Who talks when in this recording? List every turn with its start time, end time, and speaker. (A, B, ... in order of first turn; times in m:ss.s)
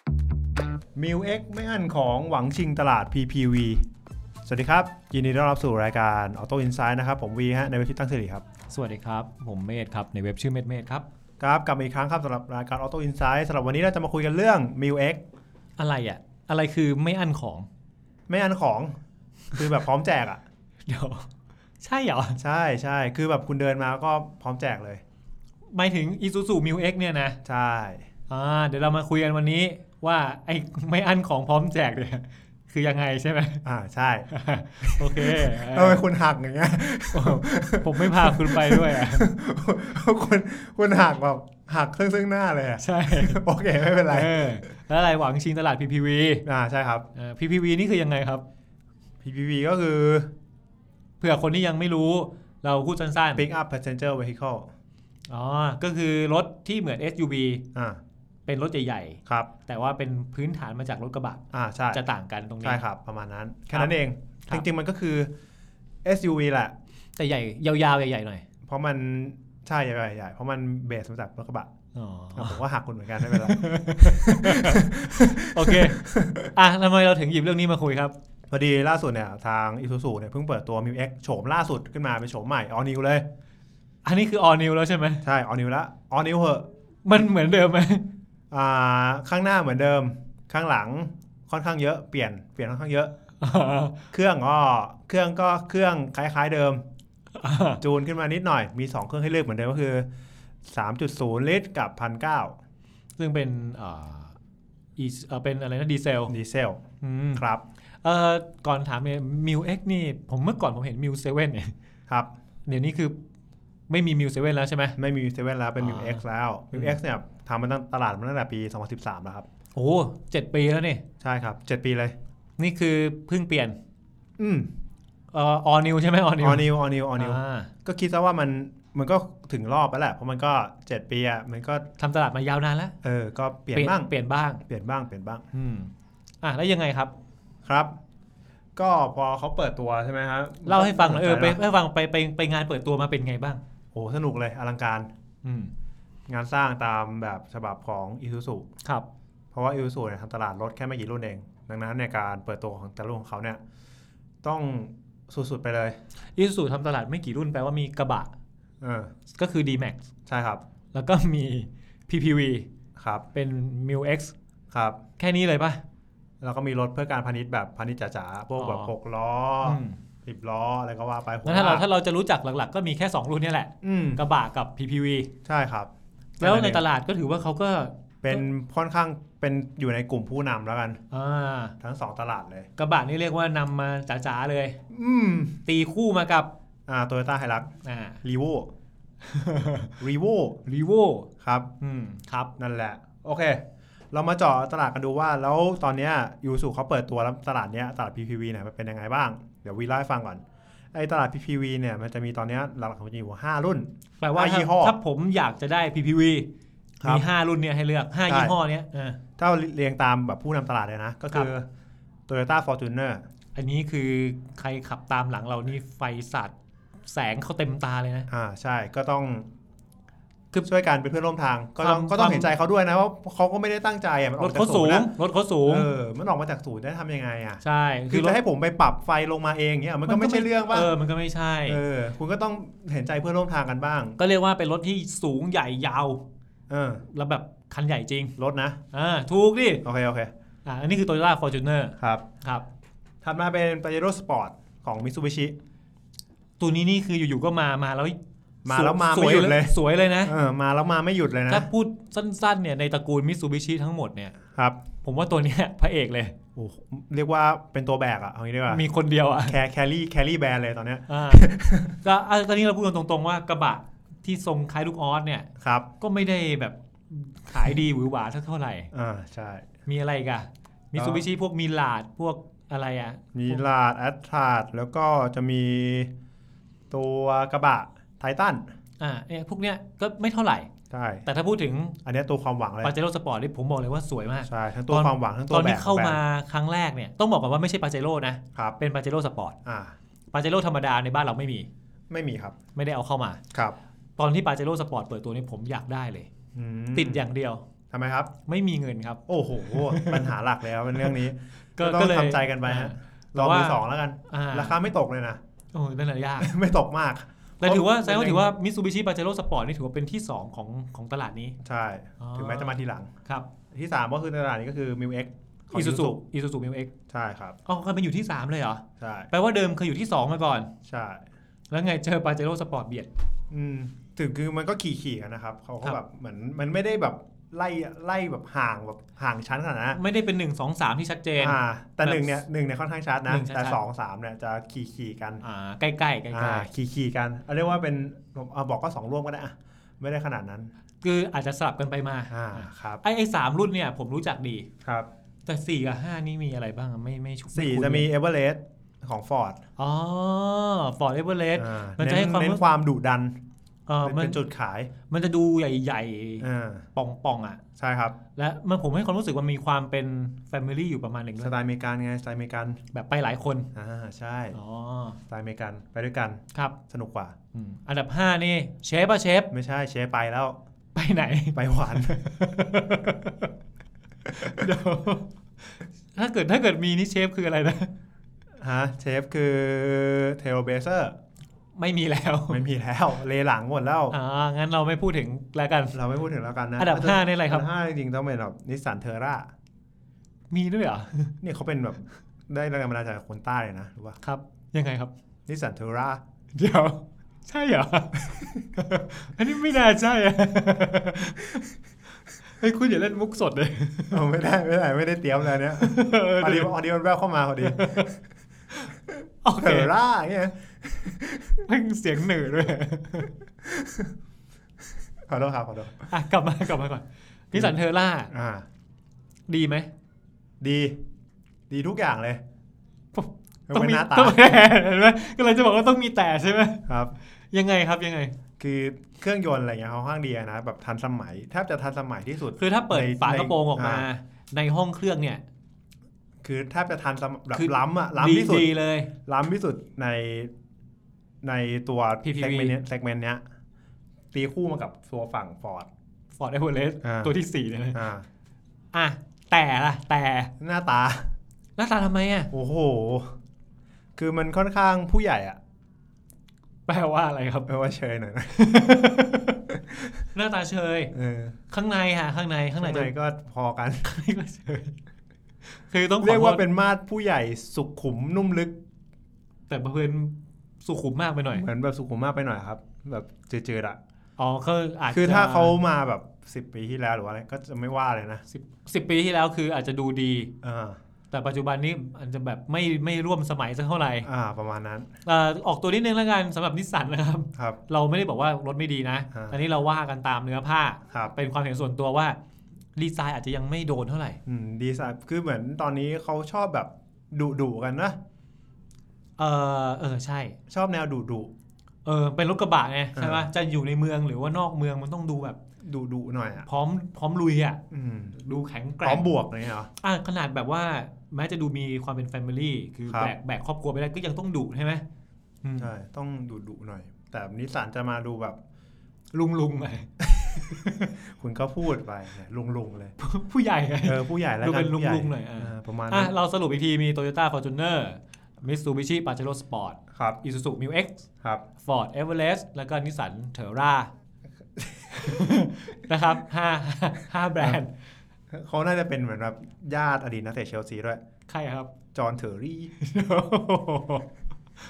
0:00.9-0:03.8 A
0:04.4-0:08.4 A
0:08.7-0:11.0 B
0:11.4-0:15.2 A
0:15.8-0:17.7 B
0:18.3-0:19.0 A
0:19.5-0:20.4 A
0:20.9-0:21.3 B
0:21.8-0:22.4 B
0:22.4-0:25.0 A
0:25.7-0:27.4 B
0:27.4-0:28.0 A
0:28.3-0:33.6 B
0:33.6-0:34.3 A
0:34.3-0:36.0 B
0:34.8-0:44.6 A
0:37.1-0:39.3 B
0:42.8-0:43.4 B
0:44.1-0:46.4 B
0:46.4-0:47.1 A
0:47.1-0:48.4 B
0:49.2-0:50.3 A
0:51.2-0:53.4 B
0:53.4-0:54.7 A
0:55.3-0:57.6 B
0:57.7-0:58.0 A
0:58.4-1:02.8 B
0:59.2-0:59.5 A
1:01.5-1:02.0 A
1:02.6-1:05.3 A
1:06.0-1:06.7 A
1:07.2-1:08.4 B
1:08.6-1:11.7 A
1:11.9-1:12.6 B
1:12.4-1:16.5 A
1:13.2-1:18.1 B
1:18.5-1:23.2 A
1:24.0-1:25.2 B
1:25.2-1:26.7 A
1:27.0-1:28.0 B
1:28.5-1:33.1 A
1:33.4-1:33.9 B
1:34.1-1:36.8 A
1:37.4-1:37.8 B
1:37.8-1:40.1 A
1:40.6-1:42.6 A
1:43.2-1:44.4 B
1:45.0-1:46.3 B
1:46.3-1:46.8 A
1:47.0-1:47.4 B
1:47.4-1:47.6 A
1:48.0-1:51.7 B
1:52.6-1:53.1 B
1:53.9-1:55.0 B
1:55.0-1:59.5 A
1:55.8-1:57.0 B
1:59.7-2:01.0 B
2:01.2-2:02.2 A
2:02.6-2:03.8 B
2:04.4-2:04.7 A
2:05.3-2:07.7 B
2:06.4-2:11.9 A
2:12.0-2:12.9 B
2:13.0-2:14.1 A
2:13.7-2:14.6 B
2:14.6-2:15.4 A
2:15.5-2:15.9 B
2:16.4-2:17.1 B
2:17.6-2:18.0 A
2:18.8-2:21.6 A
2:20.6-2:23.6 B
2:23.9-2:25.1 A
2:25.4-2:25.7 B
2:26.3-2:28.7 A
2:29.5-2:33.6 A
2:34.4-2:36.0 A
2:36.4-2:38.3 B
2:38.8-2:39.1 A
2:39.3-2:40.0 B
2:40.3-2:40.6 A
2:40.9-2:42.7 B
2:43.0-2:43.2 A
2:43.3-2:44.3 B
2:44.7-2:45.0 A
2:45.2-2:45.8 B
2:46.4-2:51.8 A
2:48.6-2:48.9 B
2:49.6-2:50.0 B
2:51.4-2:55.3 B
2:53.8-2:54.2 A
2:55.4-2:56.8 A
2:56.4-2:58.4 B
2:58.2-3:01.0 A
3:01.1-3:01.7 B
3:01.8-3:02.7 A
3:02.8-3:04.8 B
3:04.9-3:05.6 A
3:05.6-3:06.5 B
3:06.9-3:07.7 A
3:07.8-3:08.2 B
3:08.2-3:08.7 A
3:09.2-3:09.9 B
3:10.0-3:10.6 A
3:10.6-3:11.3 B
3:11.4-3:11.7 A
3:11.8-3:12.5 B
3:12.6-3:25.0 A
3:24.2-3:26.5 B
3:27.0-3:27.2 A
3:27.0-3:29.2 B
3:28.2-3:28.6 A
3:29.4-3:31.7 A
3:32.3-3:33.2 A
3:33.5-3:36.5 B
3:37.0-3:38.3 B
3:38.3-3:39.5 A
3:40.6-3:45.1 A
3:41.8-3:42.5 B
3:44.4-3:45.9 B
3:45.6-3:50.9 A
3:47.6-3:48.4 B
3:50.0-3:51.8 B
3:51.6-3:54.2 A
3:54.2-3:56.2 B
3:56.7-3:57.0 A
3:57.1-3:58.3 B
3:58.4-3:58.8 A
3:58.9-3:59.8 B
3:59.8-4:00.3 A
4:00.6-4:02.6 B
4:02.0-4:02.2 A
4:03.2-4:05.6 A
4:06.6-4:08.2 B
4:08.6-4:11.7 A
4:08.7-4:10.3 B
4:11.5-4:14.4 B
4:14.5-4:14.8 A
4:15.0-4:16.3 B
4:16.6-4:18.8 A
4:18.7-4:19.6 B
4:19.5-4:22.0 A
4:21.1-4:21.5 B
4:22.0-4:25.5 B
4:25.6-4:25.9 A
4:26.0-4:28.9 B
4:28.9-4:29.7 A
4:29.8-4:33.6 B
4:30.9-4:31.2 A
4:33.3-4:36.1 A
4:36.9-4:38.6 A
4:39.0-4:40.7 B
4:40.9-4:41.2 A
4:41.2-4:42.0 B
4:42.0-4:42.9 A
4:42.8-4:49.6 B
4:44.4-4:46.2 A
4:49.6-4:50.0 A
4:50.3-4:51.7 B
4:52.1-4:52.6 A
4:52.7-4:53.4 B
4:53.5-4:53.8 A
4:54.2-4:56.3 B
4:56.5-4:57.2 A
4:56.9-4:57.6 B
4:57.9-4:58.3 A
4:58.4-5:00.3 B
4:59.3-5:05.4 A
5:01.8-5:04.8 B
5:05.7-5:06.5 B
5:06.4-5:08.5 A
5:07.6-5:11.6 B
5:11.6-5:13.1 A
5:12.2-5:13.5 B
5:13.7-5:16.2 A
5:15.7-5:16.9 B
5:17.1-5:17.6 A
5:17.6-5:20.7 B
5:19.0-5:19.3 A
5:20.8-5:21.2 A
5:21.7-5:23.1 B
5:23.5-5:30.0 A
5:29.9-5:32.4 B
5:31.4-5:35.4 A
5:33.3-5:33.8 B
5:35.4-5:36.7 B
5:36.3-5:40.7 A
5:41.0-5:44.7 B
5:42.3-5:43.0 A
5:44.8-5:45.1 A
5:45.4-5:48.1 B
5:47.5-5:49.6 A
5:49.8-5:52.6 B
5:51.6-5:53.4 A
5:53.9-5:54.4 B
5:54.0-5:54.9 A
5:55.1-5:57.6 B
5:56.4-5:56.9 A
5:57.8-5:58.2 A
5:58.4-6:01.5 B
6:01.4-6:02.8 A
6:02.9-6:03.7 B
6:03.7-6:04.6 A
6:04.5-6:05.2 B
6:05.3-6:07.4 A
6:07.5-6:09.5 B
6:09.5-6:10.6 A
6:10.9-6:13.5 B
6:11.5-6:12.3 A
6:14.3-6:17.9 B
6:18.6-6:21.2 A
6:21.8-6:22.6 B
6:22.5-6:24.1 A
6:24.1-6:26.0 B
6:25.9-6:29.5 A
6:26.8-6:27.7 B
6:30.5-6:31.3 B
6:31.4-6:34.2 A
6:34.2-6:35.1 B
6:35.5-6:36.2 A
6:36.5-6:41.7 B
6:42.4-6:44.2 B
6:44.1-6:48.2 A
6:45.8-6:46.7 B
6:47.6-6:48.1 B
6:49.4-6:49.9 B
6:49.6-6:51.6 A
6:51.6-6:53.3 B
6:53.6-6:54.1 A
6:55.2-6:56.1 A
6:56.1-6:58.3 B
6:58.3-6:58.6 A
6:59.5-6:59.9 B
7:00.6-7:01.0 A
7:01.7-7:02.4 A
7:03.1-7:06.9 B
7:03.7-7:04.4 A
7:06.9-7:07.1 A
7:07.5-7:08.3 B
7:08.6-7:14.0 A
7:12.6-7:15.4 B
7:16.4-7:18.7 A
7:17.5-7:19.1 B
7:19.2-7:20.5 A
7:21.4-7:23.4 A
7:22.2-7:22.7 B
7:24.3-7:25.9 A
7:26.4-7:28.0 B
7:27.0-7:27.3 A
7:27.9-7:28.2 A
7:28.9-7:30.5 B
7:30.6-7:31.3 A
7:31.8-7:32.5 B
7:32.5-7:33.4 A
7:34.2-7:35.6 A
7:36.9-7:37.7 B
7:37.7-7:40.1 A
7:38.5-7:39.5 B
7:40.3-7:41.1 B
7:41.1-7:41.6 A
7:41.7-7:43.1 B
7:42.8-7:44.2 A
7:44.0-7:44.9 B
7:45.7-7:46.6 B
7:46.2-7:48.8 A
7:49.7-7:51.6 B
7:51.5-7:54.0 A
7:54.4-7:55.8 B
7:55.1-7:58.4 A
7:58.5-8:00.5 B
8:00.6-8:01.0 A
8:01.3-8:04.3 B
8:04.2-8:05.1 A
8:05.2-8:12.4 B
8:13.0-8:14.4 B
8:14.4-8:18.2 A
8:19.4-8:20.6 B
8:20.7-8:21.5 A
8:22.0-8:25.6 B
8:23.2-8:23.5 A
8:25.8-8:26.7 A
8:26.6-8:27.8 B
8:27.9-8:28.3 A
8:28.3-8:29.3 B
8:29.0-8:29.9 A
8:30.0-8:35.0 B
8:33.1-8:33.3 A
8:35.6-8:35.9 B
8:35.8-8:38.6 A
8:39.3-8:41.1 B
8:40.2-8:43.1 A
8:43.2-8:51.2 B
8:44.0-8:46.3 A
8:50.1-8:50.4 A
8:51.8-8:54.1 B
8:54.8-8:55.7 A
8:55.1-8:57.9 B
8:58.5-9:01.2 A
9:01.5-9:01.9 B
9:02.1-9:02.9 A
9:03.0-9:04.2 B